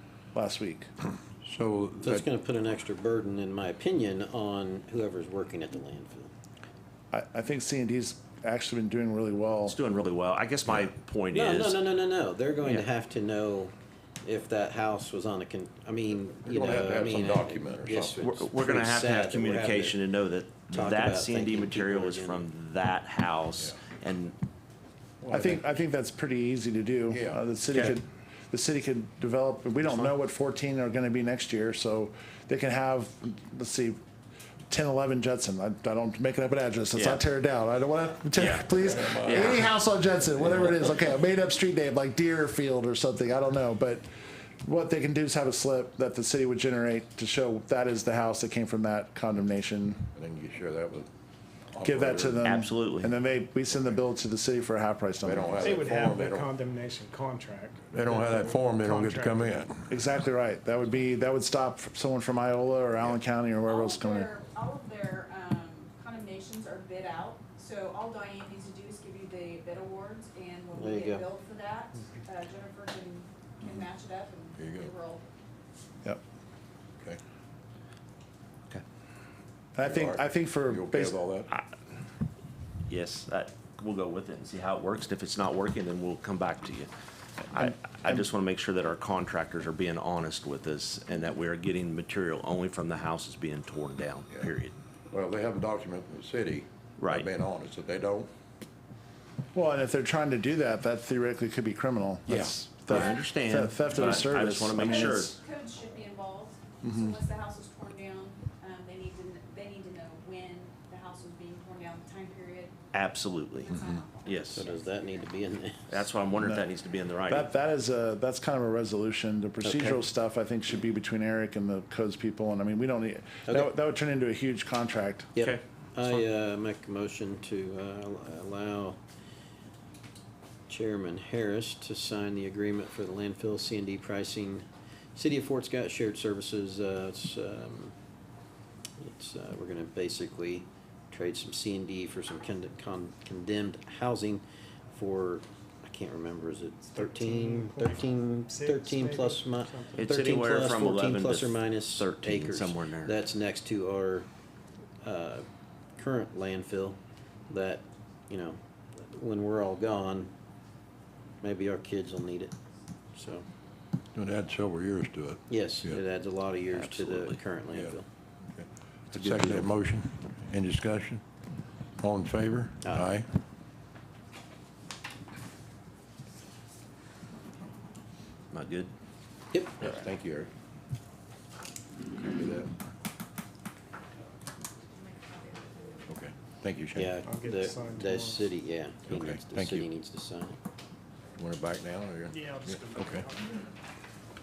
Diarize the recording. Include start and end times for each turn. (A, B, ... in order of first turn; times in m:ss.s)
0:00.3-0:00.9 A
0:01.4-0:02.2 B
0:02.0-0:06.3 C
0:07.1-0:09.8 A
0:09.6-0:11.9 D
0:11.3-0:20.0 C
0:12.6-0:12.9 D
0:16.4-0:18.2 B
0:18.2-0:24.3 D
0:20.7-0:22.4 C
0:25.3-0:34.0 A
0:27.1-0:27.4 B
0:34.7-0:44.0 A
0:36.9-0:37.2 D
0:38.3-0:38.7 D
0:38.8-0:39.6 B
0:39.2-0:39.6 D
0:44.6-0:50.1 A
0:50.1-0:51.1 B
0:51.7-0:52.5 B
0:51.8-0:55.8 A
0:52.4-0:53.1 D
0:55.2-0:56.5 B
0:55.6-0:59.6 E
0:57.9-0:59.9 B
0:59.9-1:04.3 A
1:03.6-1:15.2 F
1:10.7-1:11.3 C
1:14.6-1:14.9 B
1:19.7-1:21.2 A
1:19.8-1:21.5 B
1:22.9-1:26.9 D
1:27.5-1:34.7 D
1:35.1-1:38.3 B
1:37.0-1:37.3 D
1:39.5-1:45.3 A
1:42.3-1:42.5 B
1:42.8-1:45.4 D
1:45.1-1:52.7 F
1:52.9-1:54.7 D
1:53.5-1:55.2 F
1:54.3-1:56.0 C
1:55.9-1:57.5 D
1:57.3-2:05.3 A
1:59.6-2:00.0 C
2:05.4-2:09.0 C
2:05.4-2:06.2 D
2:10.7-2:17.9 C
2:19.0-2:34.3 C
2:26.9-2:30.1 E
2:29.9-2:33.2 D
2:35.0-2:40.3 C
2:41.4-2:42.6 C
2:43.1-2:43.4 C
2:44.1-2:46.0 B
2:45.5-2:48.1 C
2:46.7-2:47.4 D
2:48.5-2:51.2 B
2:49.1-2:49.7 D
2:52.0-2:53.3 B
2:52.8-2:53.2 C
2:58.5-2:58.9 D
2:59.8-3:00.5 B
3:02.2-3:02.8 B
3:06.1-3:07.1 B
3:06.9-3:10.6 C
3:07.2-3:08.5 E
3:09.1-3:09.9 B
3:11.4-3:13.3 B
3:12.3-3:13.6 E